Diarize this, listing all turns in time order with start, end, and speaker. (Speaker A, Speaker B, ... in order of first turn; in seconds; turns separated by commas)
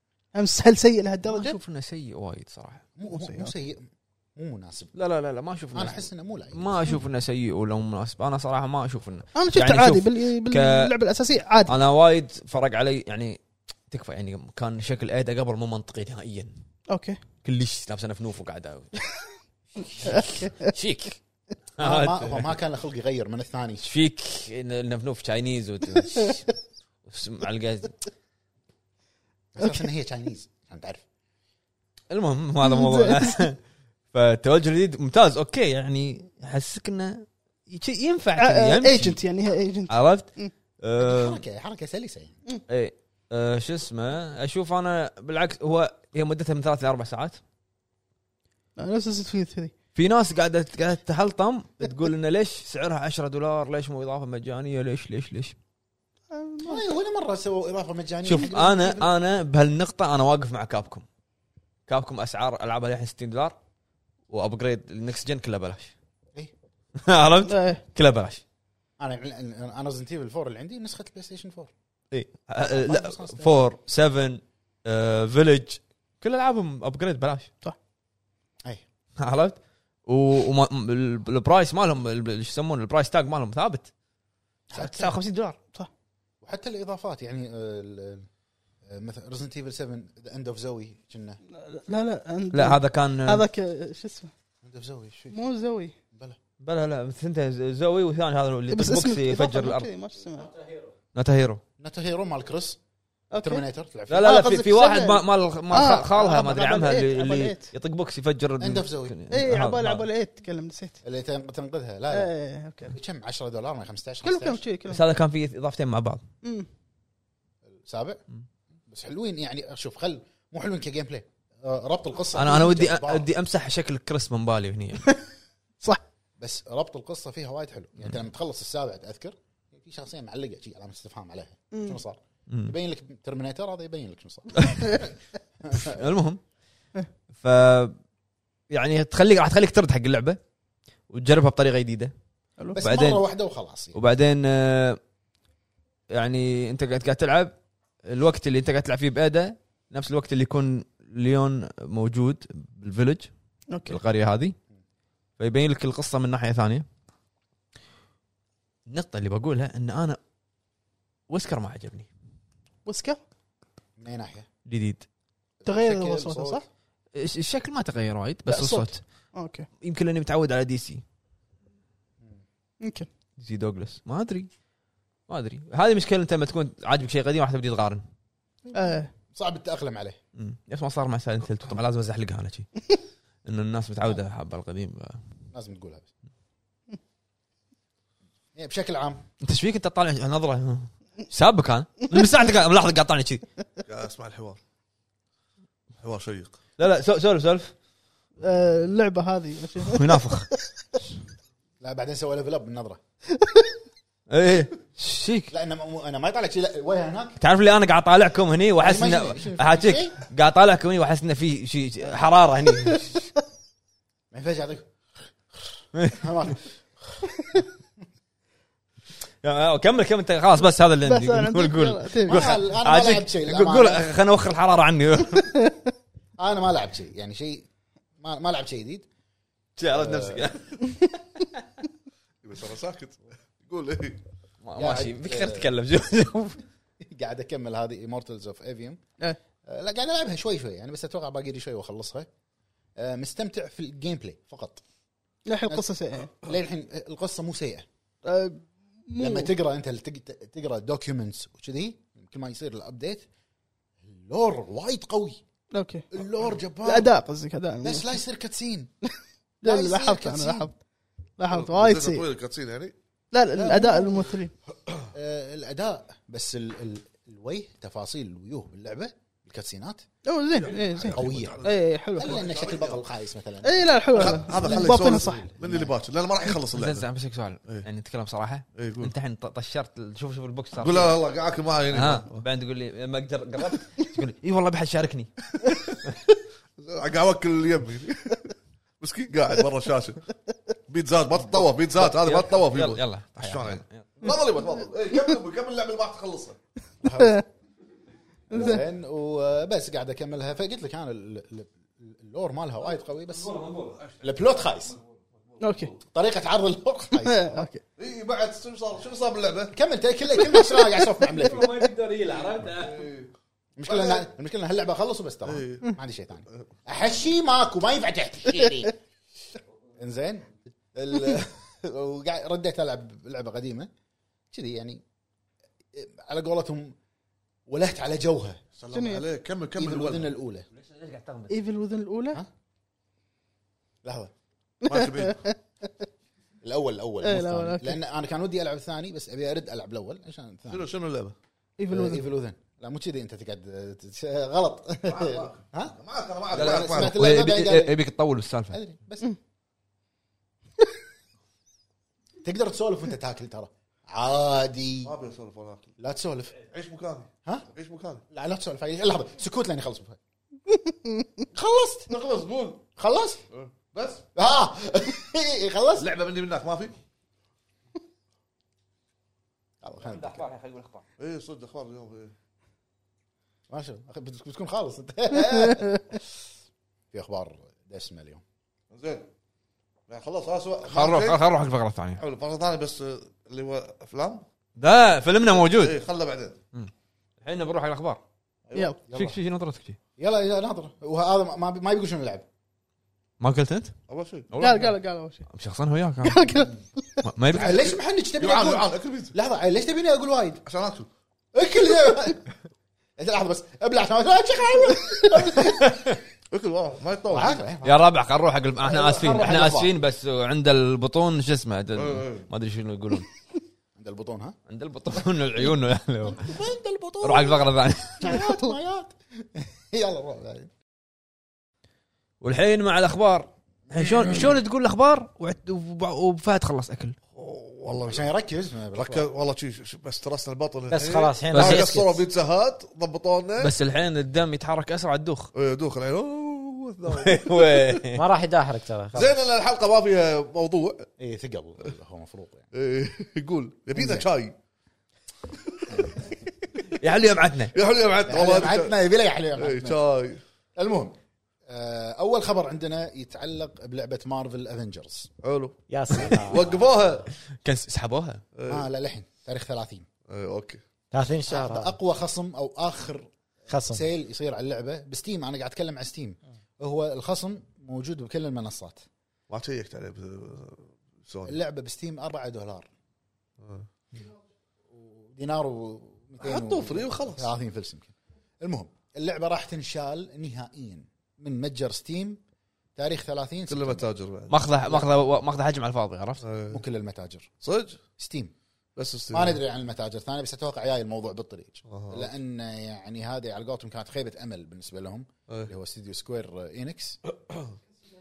Speaker A: 0.3-1.6, Speaker B: 1.2-2.9, Speaker C: 3.0-4.9, Speaker A: 3.0-3.5, Speaker B: 4.9-10.9, Speaker C: 5.7-6.9, Speaker A: 9.3-11.8, Speaker B: 11.7-13.4, Speaker B: 13.9-16.5, Speaker A: 16.9-17.2, Speaker B: 17.4-19.0, Speaker B: 19.8-21.2, Speaker A: 20.1-20.7, Speaker B: 21.8-22.5, Speaker C: 21.8-23.9, Speaker B: 23.8-26.5, Speaker B: 27.1-27.9, Speaker C: 29.6-31.0, Speaker B: 32.1-33.6, Speaker A: 32.6-33.5, Speaker B: 34.1-39.2, Speaker A: 38.4-40.5, Speaker B: 39.9-40.3, Speaker B: 40.8-41.4, Speaker C: 41.0-42.4, Speaker B: 42.7-47.4, Speaker A: 48.8-49.7, Speaker B: 49.9-55.5, Speaker A: 56.3-56.8, Speaker C: 56.6-59.1, Speaker B: 58.2-61.0, Speaker B: 61.9-63.5, Speaker B: 64.3-65.9, Speaker B: 67.0-68.4, Speaker A: 67.5-67.8, Speaker C: 69.0-71.7, Speaker B: 72.1-77.5, Speaker C: 72.6-73.7, Speaker B: 79.2-83.9, Speaker C: 84.7-85.2, Speaker B: 84.7-85.6, Speaker C: 86.4-88.3, Speaker C: 88.8-91.4, Speaker A: 91.5-94.3, Speaker B: 92.5-93.4, Speaker C: 94.6-95.3, Speaker A: 95.3-95.9, Speaker B: 96.6-99.9, Speaker A: 98.7-100.5, Speaker B: 101.1-101.6, Speaker C: 101.8-102.8, Speaker A: 103.3-103.6, Speaker C: 103.3-104.5, Speaker B: 104.1-110.0, Speaker A: 104.2-107.7, Speaker C: 108.6-109.2, Speaker A: 109.3-111.0, Speaker C: 111.0-112.3, Speaker A: 112.1-112.9, Speaker C: 112.9-114.6, Speaker A: 114.2-115.0, Speaker B: 114.9-116.2, Speaker A: 116.4-116.7, Speaker C: 117.7-118.2, Speaker C: 118.9-123.2, Speaker B: 122.3-125.1, Speaker C: 126.4-135.1, Speaker A: 131.7-132.0, Speaker B: 132.5-132.7, Speaker B: 134.6-134.8, Speaker C: 135.6-136.0, Speaker B: 135.8-136.4, Speaker B: 137.4-137.9, Speaker B: 138.7-140.4, Speaker B: 141.1-142.1, Speaker C: 142.7-144.0, Speaker B: 142.8-143.2, Speaker B: 143.9-145.0, Speaker B: 146.1-147.5, Speaker B: 148.1-153.3, Speaker A: 153.7-154.0, Speaker B: 153.9-154.5, Speaker B: 155.4-156.8, Speaker B: 158.9-160.2, Speaker B: 161.3-162.1, Speaker A: 162.8-163.2, Speaker C: 164.0-164.5, Speaker B: 164.7-165.1, Speaker C: 165.6-166.6, Speaker A: 165.6-166.7, Speaker B: 167.2-169.0, Speaker A: 168.5-169.7, Speaker B: 169.8-171.0, Speaker A: 172.8-173.1, Speaker B: 173.4-174.5, Speaker B: 175.3-178.0, Speaker A: 178.7-179.1, Speaker C: 179.3-180.2, Speaker B: 180.3-182.7, Speaker B: 183.4-185.2, Speaker C: 185.5-186.1, Speaker C: 188.5-189.2, Speaker B: 189.4-193.4, Speaker D: 193.8-194.6, Speaker D: 196.0-196.6, Speaker B: 196.8-197.7, Speaker A: 198.4-200.3, Speaker B: 199.8-200.5, Speaker C: 201.8-203.0, Speaker A: 203.3-203.7, Speaker B: 204.3-205.5, Speaker C: 205.5-207.4, Speaker B: 207.4-213.1, Speaker C: 208.8-210.2, Speaker C: 214.3-214.9, Speaker C: 215.6-216.7, Speaker B: 215.9-216.3, Speaker C: 217.4-217.7, Speaker B: 219.4-225.6, Speaker A: 221.0-222.5, Speaker C: 222.2-224.1, Speaker A: 225.4-225.7, Speaker C: 226.4-227.7, Speaker C: 228.2-229.1, Speaker B: 229.8-231.0, Speaker C: 229.9-230.4, Speaker D: 232.4-234.2, Speaker B: 234.6-236.6, Speaker C: 234.8-235.7, Speaker C: 237.0-239.0, Speaker C: 239.7-242.3, Speaker C: 243.0-244.8, Speaker A: 245.4-246.3, Speaker C: 245.7-247.9, Speaker A: 248.2-249.5, Speaker C: 249.2-253.2, Speaker C: 254.0-255.4, Speaker A: 255.7-256.1, Speaker C: 256.1-257.1, Speaker A: 256.8-258.1, Speaker C: 257.8-258.9, Speaker A: 259.6-260.8, Speaker C: 259.6-260.7, Speaker A: 261.4-262.3, Speaker D: 261.5-262.9, Speaker A: 263.3-264.5, Speaker C: 263.6-264.3, Speaker C: 265.1-270.0, Speaker A: 270.2-272.4, Speaker D: 270.9-273.0, Speaker C: 271.0-271.6, Speaker C: 272.1-275.9, Speaker A: 273.6-275.5, Speaker D: 274.1-277.1, Speaker B: 276.7-281.2, Speaker D: 278.8-279.1, Speaker D: 280.8-282.4, Speaker B: 281.9-285.3, Speaker D: 285.6-285.9, Speaker D: 286.8-290.3, Speaker D: 290.9-296.6, Speaker B: 291.9-294.1, Speaker C: 297.0-297.4, Speaker A: 297.1-297.4, Speaker A: 298.5-298.8, Speaker C: 298.5-303.5, Speaker B: 303.3-304.0, Speaker C: 304.2-304.9, Speaker D: 305.5-306.0, Speaker A: 305.6-305.9, Speaker C: 306.1-307.7, Speaker A: 307.1-307.8, Speaker D: 308.0-309.8, Speaker C: 309.7-311.9, Speaker A: 310.5-310.9, Speaker B: 311.2-313.0, Speaker D: 312.6-313.3, Speaker C: 313.8-318.9, Speaker D: 313.9-314.2, Speaker D: 315.4-315.9, Speaker C: 320.0-323.9, Speaker C: 324.5-325.0, Speaker C: 325.9-326.9, Speaker C: 327.7-328.6, Speaker D: 328.8-330.3, Speaker A: 328.9-329.2, Speaker C: 329.8-330.7, Speaker B: 330.7-331.5, Speaker A: 331.5-332.4, Speaker C: 334.0-334.3, Speaker D: 334.9-335.4, Speaker A: 334.9-335.6, Speaker C: 336.6-340.9, Speaker A: 337.2-338.0, Speaker D: 340.7-341.4, Speaker A: 341.8-342.3, Speaker C: 341.9-346.0, Speaker D: 345.1-347.2, Speaker C: 346.5-347.9, Speaker B: 346.5-348.8, Speaker C: 348.7-349.3, Speaker C: 352.4-355.1, Speaker D: 355.0-355.9, Speaker C: 356.0-356.5, Speaker D: 356.6-358.2, Speaker C: 358.3-360.2, Speaker A: 360.7-361.3, Speaker C: 361.5-362.1, Speaker D: 362.1-362.8, Speaker C: 362.9-363.4, Speaker D: 363.5-364.2, Speaker C: 364.3-366.1, Speaker D: 366.0-367.0, Speaker C: 369.8-370.5, Speaker B: 370.0-371.0, Speaker D: 371.2-372.3, Speaker C: 373.7-376.4, Speaker A: 375.4-376.0, Speaker C: 377.1-378.4, Speaker D: 378.9-379.3, Speaker D: 380.1-381.4, Speaker B: 380.9-382.2, Speaker D: 382.2-384.4, Speaker B: 384.8-386.0, Speaker D: 385.5-386.6, Speaker B: 386.7-388.2, Speaker D: 388.7-388.9, Speaker C: 389.1-389.4, Speaker B: 389.1-390.0, Speaker C: 390.2-392.5, Speaker B: 393.4-393.9, Speaker D: 394.1-394.5, Speaker B: 394.5-394.9, Speaker A: 394.6-395.4, Speaker B: 395.5-396.5, Speaker A: 396.2-397.3, Speaker B: 397.2-397.8, Speaker C: 397.5-400.6, Speaker D: 398.4-399.3, Speaker D: 400.6-401.1, Speaker C: 401.5-402.5, Speaker C: 403.2-406.0, Speaker A: 405.0-405.5, Speaker B: 405.8-406.2, Speaker D: 406.5-407.6, Speaker C: 407.3-408.1, Speaker B: 407.8-413.3, Speaker C: 408.8-410.0, Speaker D: 411.9-412.5, Speaker C: 413.9-414.6, Speaker B: 414.7-416.6, Speaker C: 416.3-420.7, Speaker B: 417.2-418.4, Speaker A: 418.2-418.7, Speaker B: 422.4-427.1, Speaker C: 423.9-424.3, Speaker D: 427.3-428.3, Speaker C: 428.0-429.3, Speaker D: 428.9-433.7, Speaker E: 430.9-431.9, Speaker B: 431.5-431.9, Speaker C: 431.6-432.2, Speaker B: 433.6-435.5, Speaker D: 435.5-437.9, Speaker B: 437.1-438.2, Speaker E: 438.1-439.4, Speaker D: 439.1-441.1, Speaker C: 441.2-442.7, Speaker D: 442.7-444.5, Speaker C: 443.9-444.3, Speaker D: 445.5-446.1, Speaker C: 445.9-446.3, Speaker B: 446.9-447.7, Speaker D: 447.7-448.9, Speaker C: 448.2-450.0, Speaker D: 449.6-450.4, Speaker C: 450.8-451.1, Speaker C: 451.7-455.3, Speaker D: 455.4-457.2, Speaker E: 455.9-456.7, Speaker B: 457.6-458.4, Speaker D: 458.6-458.9, Speaker C: 458.6-460.1, Speaker D: 460.3-460.8, Speaker E: 461.1-461.9, Speaker C: 461.5-463.3, Speaker E: 463.7-464.0, Speaker C: 463.9-469.1, Speaker D: 469.5-471.6, Speaker C: 471.4-472.9, Speaker D: 473.6-473.9, Speaker C: 474.9-482.4, Speaker D: 476.4-477.5, Speaker C: 482.9-484.1, Speaker D: 483.7-485.1, Speaker B: 484.5-486.4, Speaker D: 486.4-486.8, Speaker C: 486.7-487.5, Speaker D: 487.6-488.0, Speaker C: 488.2-488.5, Speaker D: 488.9-489.6, Speaker C: 489.3-497.2, Speaker D: 491.9-492.3